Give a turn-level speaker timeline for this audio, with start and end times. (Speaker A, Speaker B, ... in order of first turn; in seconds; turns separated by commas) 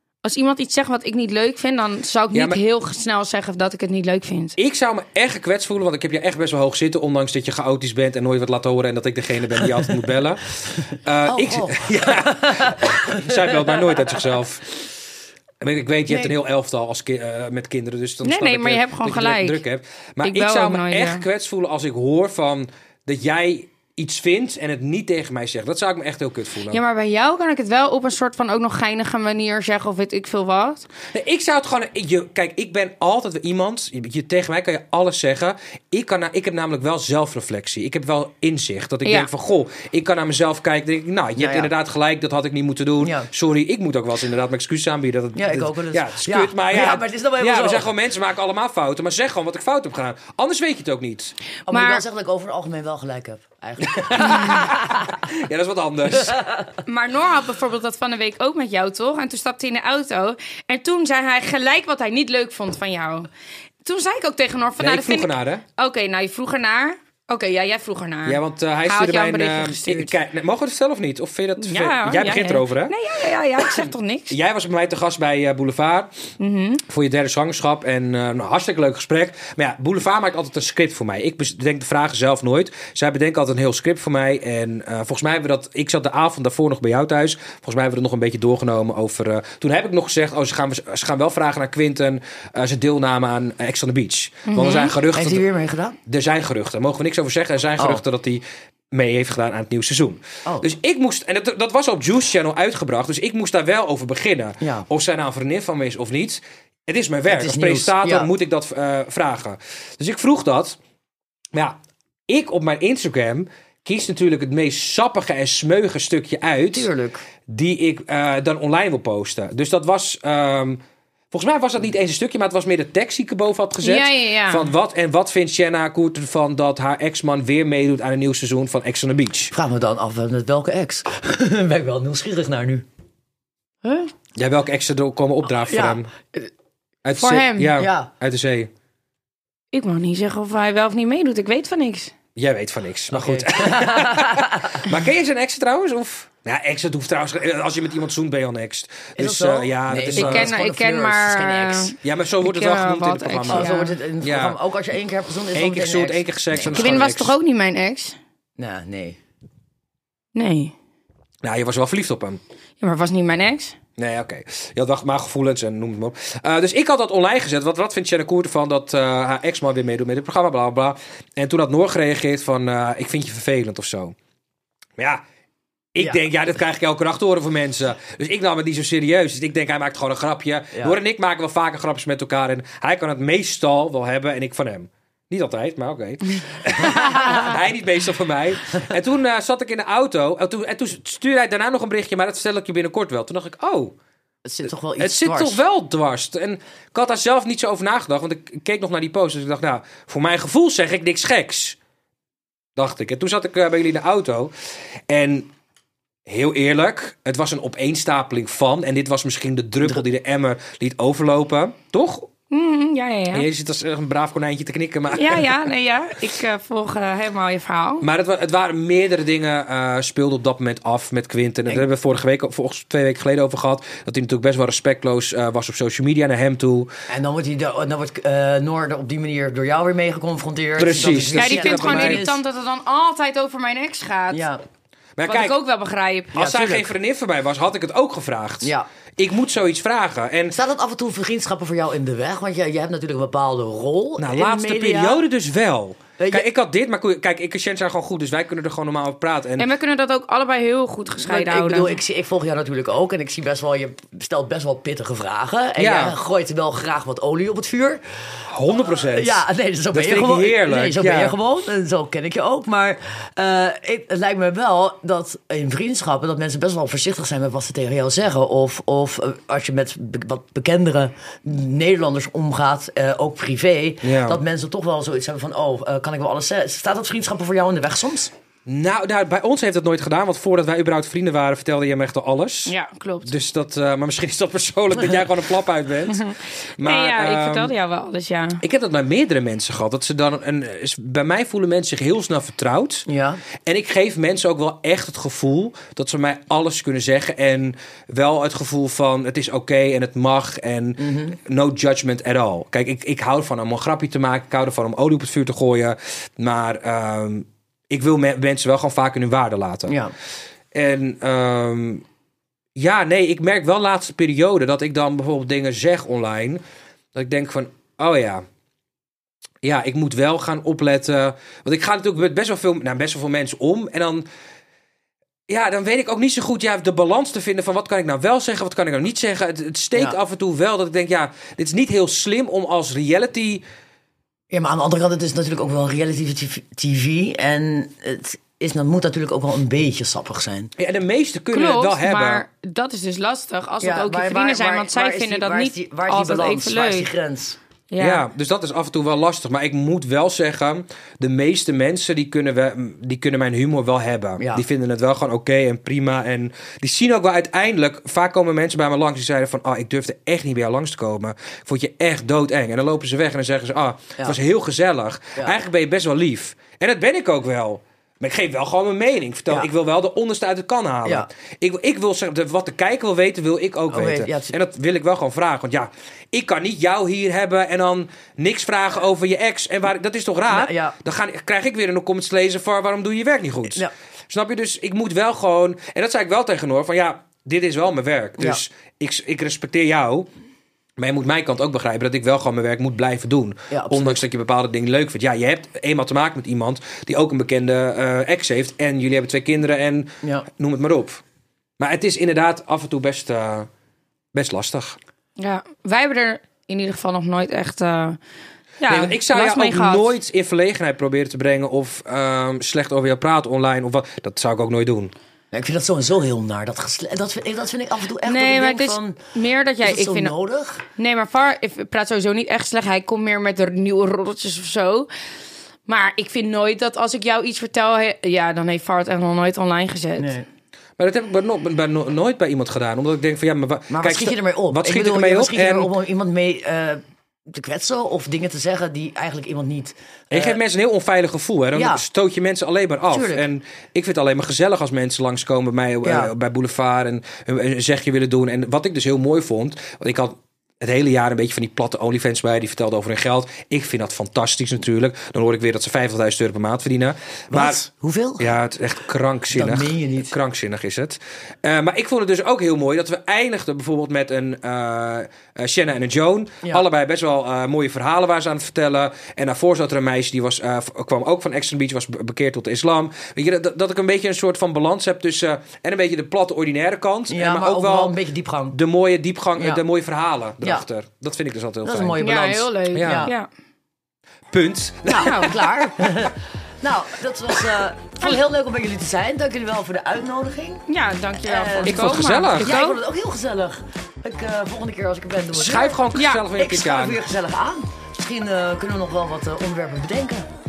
Speaker A: 0.2-4.6, Speaker B: 2.3-2.6, Speaker B: 4.6-14.8, Speaker C: 11.3-14.0, Speaker B: 15.6-26.8, Speaker A: 18.2-19.6, Speaker A: 20.2-21.2, Speaker A: 26.7-30.9, Speaker B: 31.1-51.3, Speaker C: 41.4-41.7, Speaker C: 43.0-43.3, Speaker C: 45.4-47.9, Speaker C: 51.7-55.1, Speaker A: 51.7-52.0, Speaker B: 53.9-56.4, Speaker C: 56.2-56.6, Speaker A: 56.9-63.3, Speaker A: 63.8-70.2, Speaker B: 64.8-65.6, Speaker B: 68.3-73.0, Speaker A: 71.6-74.4, Speaker B: 73.7-76.1, Speaker A: 76.4-76.8, Speaker B: 76.9-95.5, Speaker A: 94.5-94.9, Speaker C: 95.1-96.0, Speaker B: 96.1-110.8, Speaker C: 104.6-104.9, Speaker C: 107.3-108.3, Speaker B: 112.3-116.9, Speaker C: 116.7-117.2, Speaker B: 117.5-120.8, Speaker B: 121.3-129.5, Speaker A: 123.8-124.7, Speaker C: 129.5-132.9, Speaker B: 134.4-136.1, Speaker C: 135.6-136.5, Speaker B: 137.1-138.7, Speaker A: 137.2-137.7, Speaker C: 137.8-138.1, Speaker A: 139.7-142.1, Speaker B: 142.4-150.5, Speaker C: 143.1-144.9, Speaker C: 149.2-151.9, Speaker A: 150.1-153.9, Speaker B: 152.0-154.6, Speaker C: 153.5-157.0, Speaker B: 155.5-157.3, Speaker A: 156.6-158.2, Speaker C: 158.6-159.2, Speaker A: 160.3-160.7, Speaker B: 161.4-162.4, Speaker A: 162.8-163.8, Speaker B: 164.0-174.2, Speaker B: 175.9-193.9, Speaker C: 194.4-195.6, Speaker B: 195.0-201.8, Speaker B: 202.8-204.5, Speaker B: 205.1-205.5, Speaker B: 206.3-212.3, Speaker A: 212.5-213.5, Speaker B: 213.3-215.7, Speaker A: 215.1-218.1, Speaker B: 218.0-226.9, Speaker C: 227.1-232.4, Speaker B: 230.8-232.2, Speaker A: 231.4-234.5, Speaker C: 234.3-234.6, Speaker B: 235.2-235.6, Speaker A: 235.2-236.4, Speaker B: 236.3-240.6, Speaker C: 236.3-236.9, Speaker C: 238.6-238.9, Speaker C: 240.5-245.2, Speaker B: 244.2-249.7, Speaker C: 246.2-246.5, Speaker A: 249.6-252.0, Speaker C: 251.2-258.0, Speaker B: 255.8-256.2, Speaker B: 258.5-259.4, Speaker C: 258.7-278.3, Speaker B: 259.9-261.4, Speaker B: 274.0-274.4, Speaker B: 278.7-282.7, Speaker A: 282.7-283.3, Speaker B: 283.2-287.7, Speaker A: 286.1-288.6, Speaker B: 288.6-293.1, Speaker C: 293.1-293.4, Speaker B: 293.6-310.0, Speaker C: 301.0-301.4, Speaker C: 309.9-310.1, Speaker B: 310.7-312.0, Speaker B: 312.8-316.6, Speaker B: 317.1-318.4, Speaker B: 319.6-324.3, Speaker B: 325.5-333.6, Speaker C: 334.5-340.7, Speaker B: 340.8-342.4, Speaker A: 341.5-347.1, Speaker C: 343.8-347.6, Speaker A: 347.9-348.3, Speaker B: 348.0-390.3, Speaker C: 354.4-354.6, Speaker C: 373.9-374.5, Speaker C: 380.5-380.9, Speaker B: 391.0-401.2, Speaker C: 393.7-394.2, Speaker B: 401.8-403.7, Speaker B: 404.3-405.0, Speaker A: 405.4-408.2, Speaker A: 408.8-410.1, Speaker B: 408.9-415.1, Speaker C: 415.5-419.2, Speaker A: 418.2-420.3, Speaker C: 419.8-420.8, Speaker A: 420.9-425.1, Speaker A: 425.9-430.4, Speaker C: 430.2-430.5, Speaker B: 431.0-435.9, Speaker C: 433.9-440.6, Speaker B: 440.3-457.8, Speaker C: 441.7-442.0, Speaker C: 443.1-443.4, Speaker C: 446.0-446.3, Speaker C: 457.5-458.5, Speaker B: 458.4-478.2, Speaker C: 459.5-460.3, Speaker C: 477.3-478.8, Speaker B: 478.7-482.2, Speaker C: 479.6-479.8, Speaker C: 480.6-480.9, Speaker C: 481.8-483.3, Speaker A: 482.2-483.5, Speaker B: 482.9-483.3, Speaker B: 484.5-486.0, Speaker C: 485.1-496.0, Speaker A: 485.2-485.5, Speaker A: 490.9-493.0, Speaker B: 491.8-492.8, Speaker B: 495.5-497.2, Speaker A: 496.1-496.4, Speaker C: 496.6-500.5